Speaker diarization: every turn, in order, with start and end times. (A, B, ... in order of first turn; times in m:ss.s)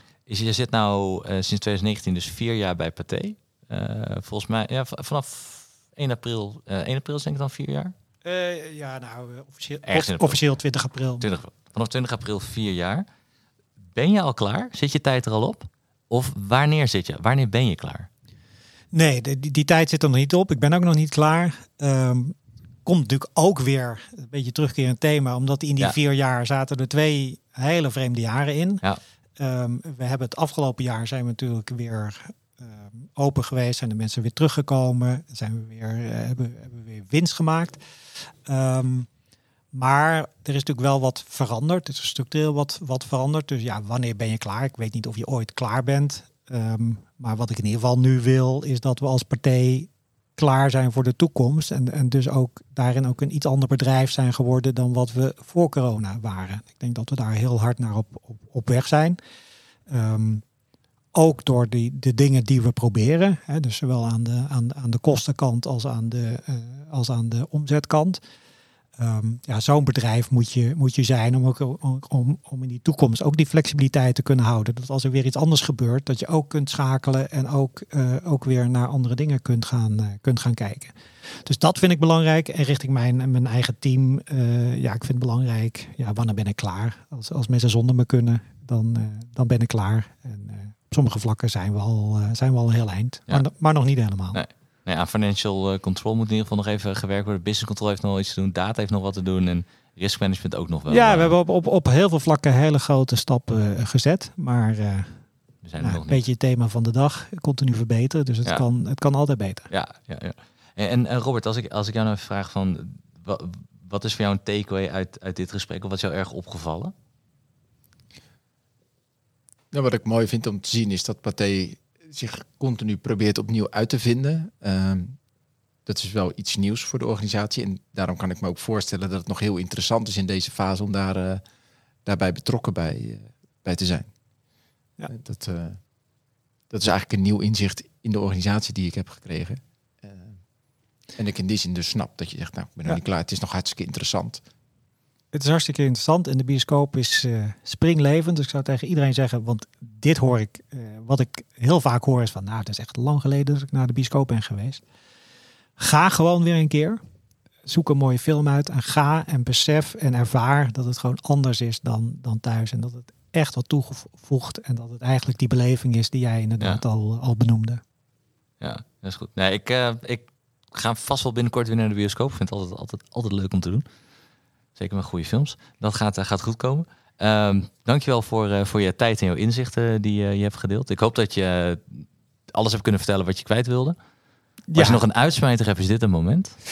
0:00.3-0:07.9 A
0:08.2-0:11.3 B
0:09.9-0:10.4 A
0:11.2-0:13.0 A
0:14.0-0:18.1 A
0:18.9-0:28.8 B
0:29.4-0:37.8 B
0:38.5-0:39.1 B
0:39.7-0:59.2 B
0:59.9-1:00.4 B
1:01.1-1:08.2 B
1:09.0-1:34.4 B
1:34.3-1:41.3 A
1:40.9-1:45.2 B
1:45.6-1:46.2 A
1:45.8-1:49.7 B
1:49.7-1:56.9 A
1:59.7-2:05.2 C
2:05.9-2:11.4 C
2:12.0-2:14.1 C
2:15.1-2:15.8 C
2:16.7-2:20.4 C
2:21.2-2:24.4 C
2:25.3-2:34.8 B
2:35.8-2:37.0 B
2:37.6-2:47.8 B
2:48.6-2:53.9 A
2:54.8-3:04.0 A
3:04.7-3:05.0 B
3:04.7-3:06.6 A